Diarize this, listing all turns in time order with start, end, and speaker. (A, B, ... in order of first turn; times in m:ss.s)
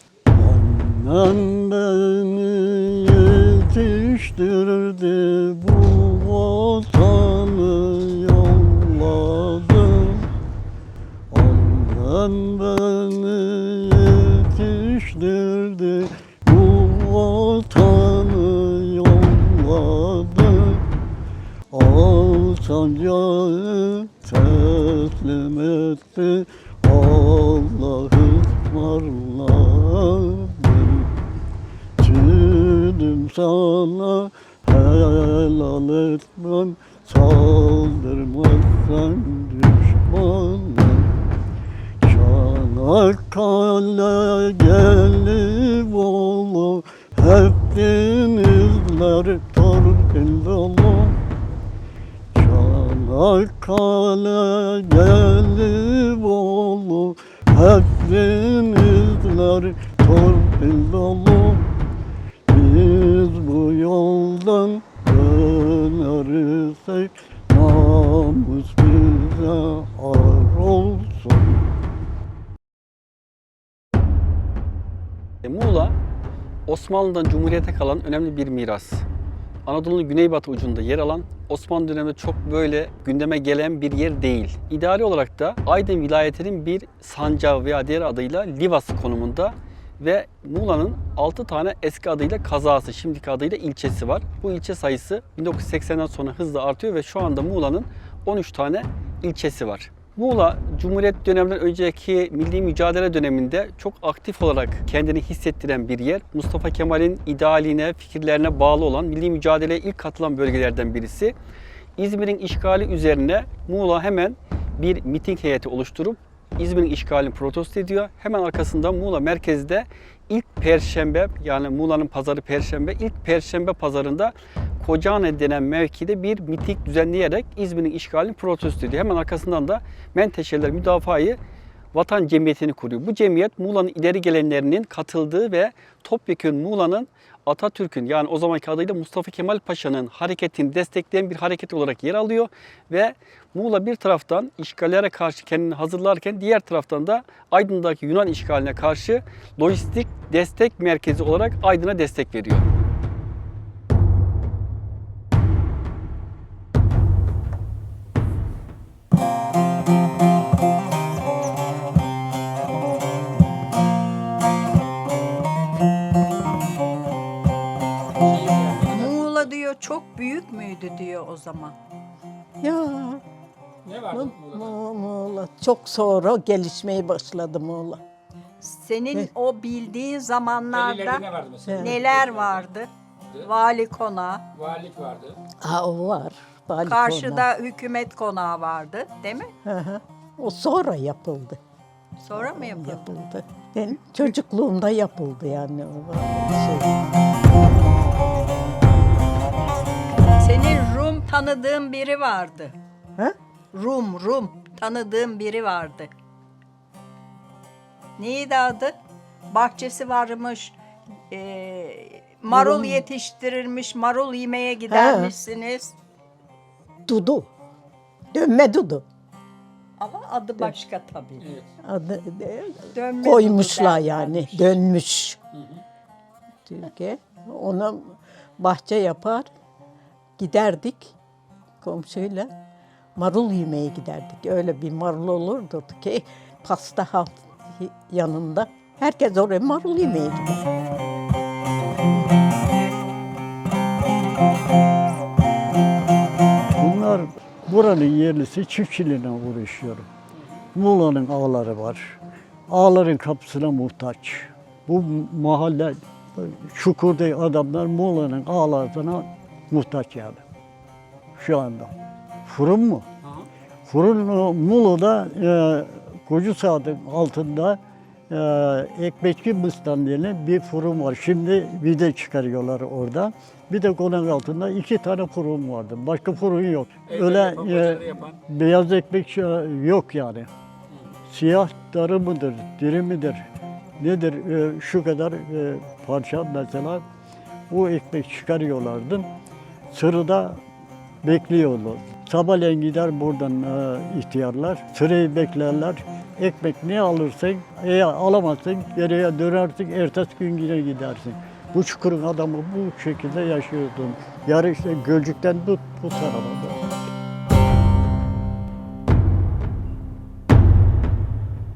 0:00.3-0:10.3 A
0:11.3-0:20.8 A
0:21.7-0:31.1 A
0:32.0-0:41.1 A
0:42.0-0:51.2 A
0:52.4-1:01.7 A
1:02.5-1:11.6 A
1:15.4-1:16.0 B
1:16.7-1:19.0 B
1:19.7-1:51.3 B
1:52.0-2:11.4 B
2:11.9-2:32.7 B
2:48.2-2:49.5 C
2:48.9-2:51.8 D
2:52.6-2:53.2 E
2:53.8-2:54.8 C
2:54.1-2:58.0 E
2:58.6-3:01.2 D
3:00.7-3:02.6 C
3:01.7-3:02.0 E
3:01.8-3:02.9 D
3:03.4-3:04.4 D
3:04.5-3:05.4 C
3:05.6-3:07.5 E
3:06.8-3:09.5 D
3:09.6-3:11.6 E
3:12.2-3:13.1 D
3:12.3-3:16.9 E
3:20.4-3:22.8 D
3:23.7-3:26.1 D
3:28.2-3:29.0 D
3:29.5-3:30.8 D
3:31.3-3:36.0 D
3:32.5-3:33.0 E
3:34.9-3:35.3 E
3:37.1-3:37.5 E
3:38.3-3:39.0 E
3:40.0-3:41.5 D
3:41.4-3:41.7 C
3:41.8-3:45.4 E
3:42.9-3:44.8 D
3:45.5-3:45.8 C
3:46.7-3:49.5 E
3:50.4-3:51.1 E
3:51.8-3:52.5 E
3:53.2-4:00.6 E
4:06.8-4:10.1 A
4:10.8-4:20.4 A
4:21.4-4:21.9 A
4:22.5-4:23.1 A
4:23.2-4:23.5 C
4:23.9-4:40.5 A
4:37.1-4:38.4 C
4:40.9-4:41.2 C
4:41.3-4:43.5 A
4:44.0-4:47.0 A
4:47.7-4:49.3 A
4:49.9-4:50.6 A
4:51.2-5:06.8 A